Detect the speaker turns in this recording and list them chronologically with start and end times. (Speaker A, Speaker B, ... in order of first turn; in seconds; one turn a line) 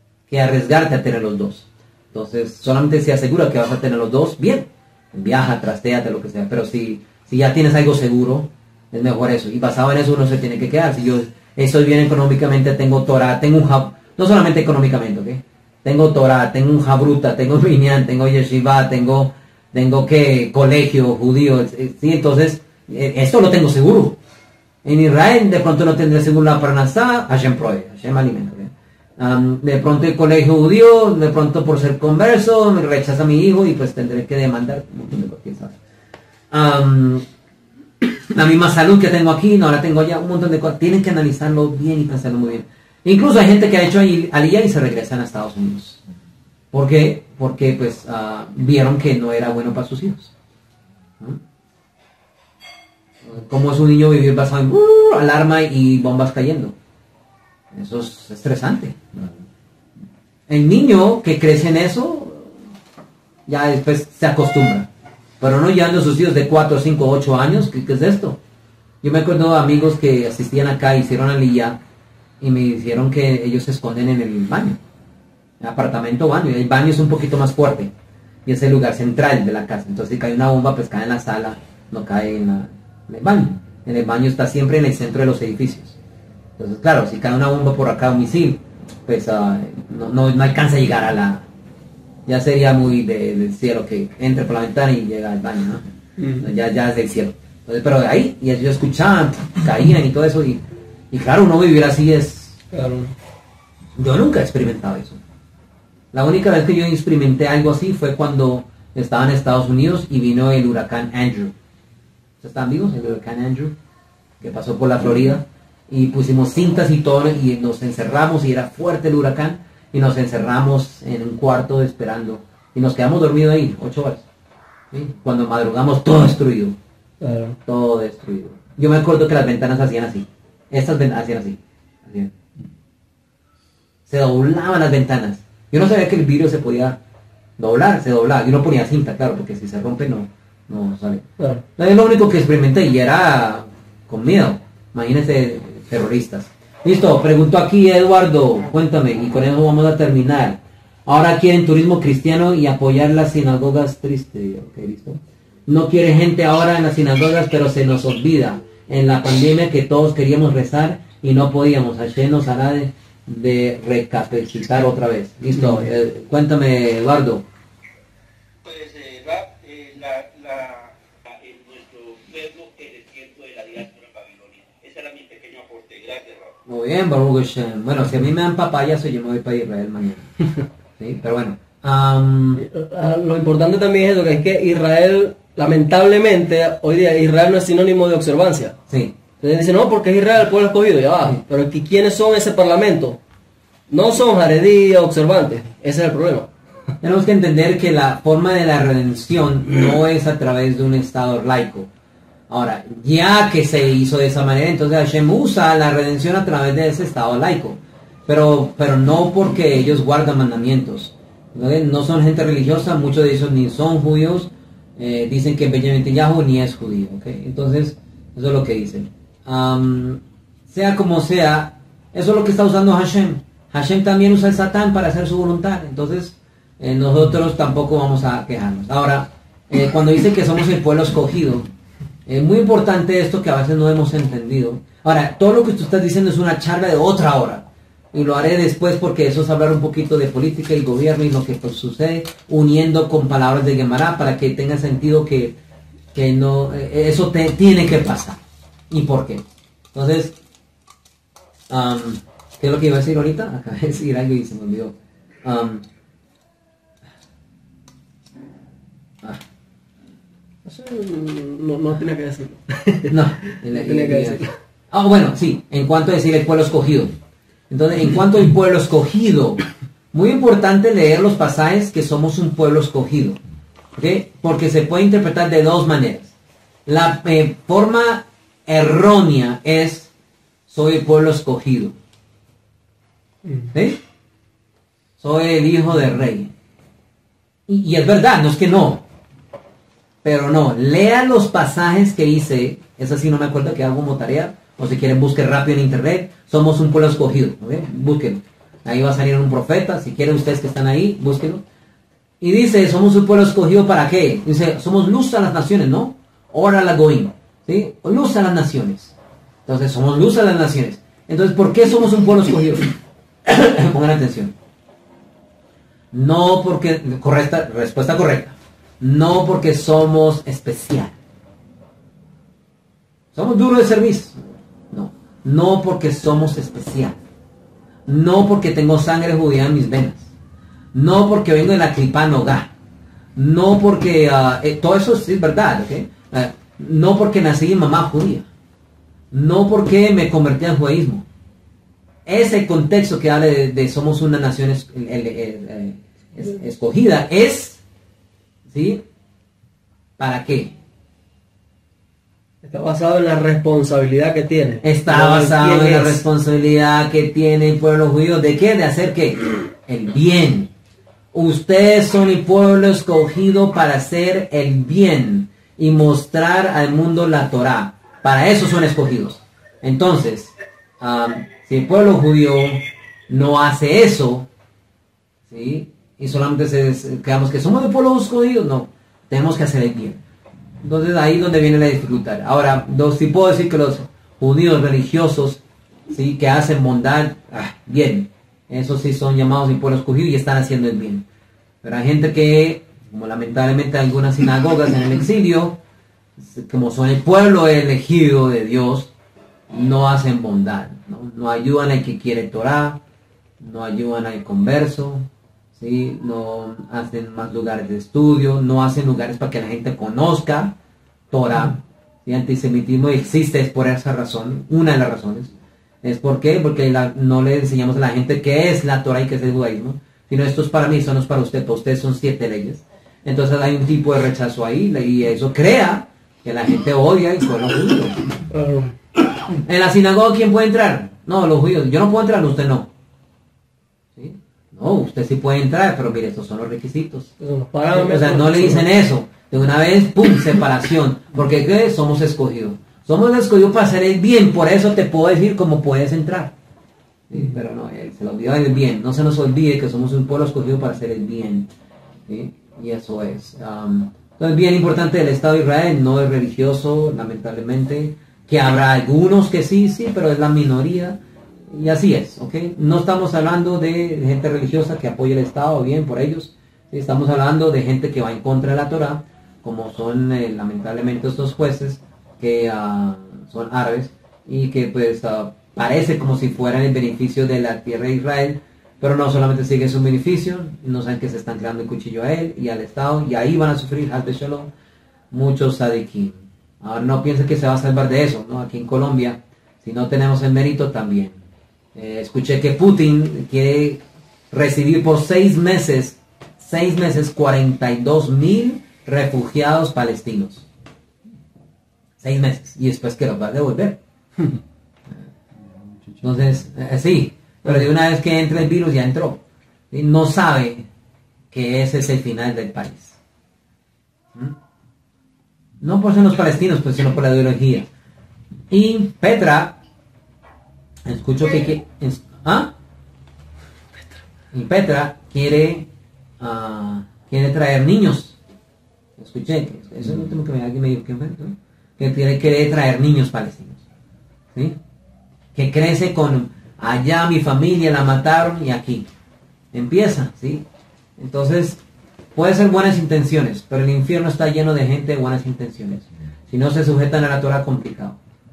Speaker A: 0.3-24.2
Speaker A: 24.8-35.8
Speaker A: 36.5-37.2
Speaker A: 38.3-46.0
Speaker A: 46.7-50.3
Speaker A: 53.2-56.7
Speaker A: 57.7-59.3
Speaker A: 60.5-62.5
Speaker A: 63.5-64.9
Speaker A: 65.4-68.4
Speaker A: 69.0-71.8
Speaker A: 72.4-74.8
Speaker A: 75.6-77.9
Speaker A: 78.5-86.0
Speaker A: 86.6-91.5
Speaker A: 92.2-95.8
Speaker B: 96.2-96.5
Speaker A: 96.4-102.6
Speaker B: 102.7-103.1
Speaker A: 104.0-105.2
Speaker A: 106.1-111.5
Speaker A: 112.4-113.7
Speaker A: 114.4-124.2
Speaker A: 124.9-126.8
Speaker B: 127.2-127.6
Speaker A: 127.7-132.3
Speaker A: 134.1-137.0
Speaker A: 137.6-141.2
Speaker A: 141.8-167.4
Speaker C: 168.6-176.5
Speaker A: 176.7-180.3
Speaker A: 181.0-182.6
Speaker B: 182.6-188.8
Speaker A: 188.9-189.1
Speaker B: 189.4-193.2
Speaker B: 193.9-196.5
Speaker A: 197.0-201.9
Speaker A: 202.5-231.7
Speaker A: 232.2-245.6
Speaker A: 246.1-250.3
Speaker A: 251.7-255.8
Speaker B: 260.6-263.1
Speaker A: 263.1-267.1
Speaker B: 263.7-264.5
Speaker A: 267.7-273.4
Speaker A: 273.9-276.3
Speaker A: 276.9-280.1
Speaker A: 280.7-281.9
Speaker A: 283.7-284.0
Speaker A: 285.2-286.5
Speaker A: 287.7-289.0
Speaker A: 290.2-301.6
Speaker A: 302.4-309.1
Speaker A: 309.6-312.9
Speaker A: 313.4-314.5
Speaker A: 316.1-321.1
Speaker A: 323.3-327.2
Speaker A: 328.1-330.3
Speaker A: 330.9-332.7
Speaker A: 333.4-338.5
Speaker A: 339.3-341.2
Speaker A: 342.2-347.8
Speaker A: 348.7-349.0
Speaker A: 350.2-350.7
Speaker B: 352.6-356.2
Speaker A: 354.8-360.7
Speaker A: 361.3-374.5
Speaker A: 375.5-380.2
Speaker A: 380.8-391.2
Speaker A: 391.8-395.8
Speaker A: 396.4-399.1
Speaker A: 399.7-403.0
Speaker A: 403.6-410.7
Speaker A: 411.3-415.5
Speaker A: 416.0-428.2
Speaker B: 428.5-428.9
Speaker A: 429.6-432.9
Speaker A: 434.1-437.3
Speaker B: 437.4-438.9
Speaker A: 437.9-446.5
Speaker A: 447.3-451.7
Speaker A: 452.3-484.7
Speaker A: 485.3-491.4
Speaker A: 491.9-500.6
Speaker A: 502.2-504.0
Speaker A: 506.2-510.9
Speaker A: 511.5-513.2
Speaker A: 515.8-517.9
Speaker A: 518.7-519.8
Speaker A: 521.0-522.7
Speaker A: 524.5-525.9
Speaker A: 526.4-528.4
Speaker A: 529.2-533.8
Speaker A: 535.5-539.0
Speaker A: 539.7-540.6
Speaker A: 541.2-541.8
Speaker A: 542.4-548.2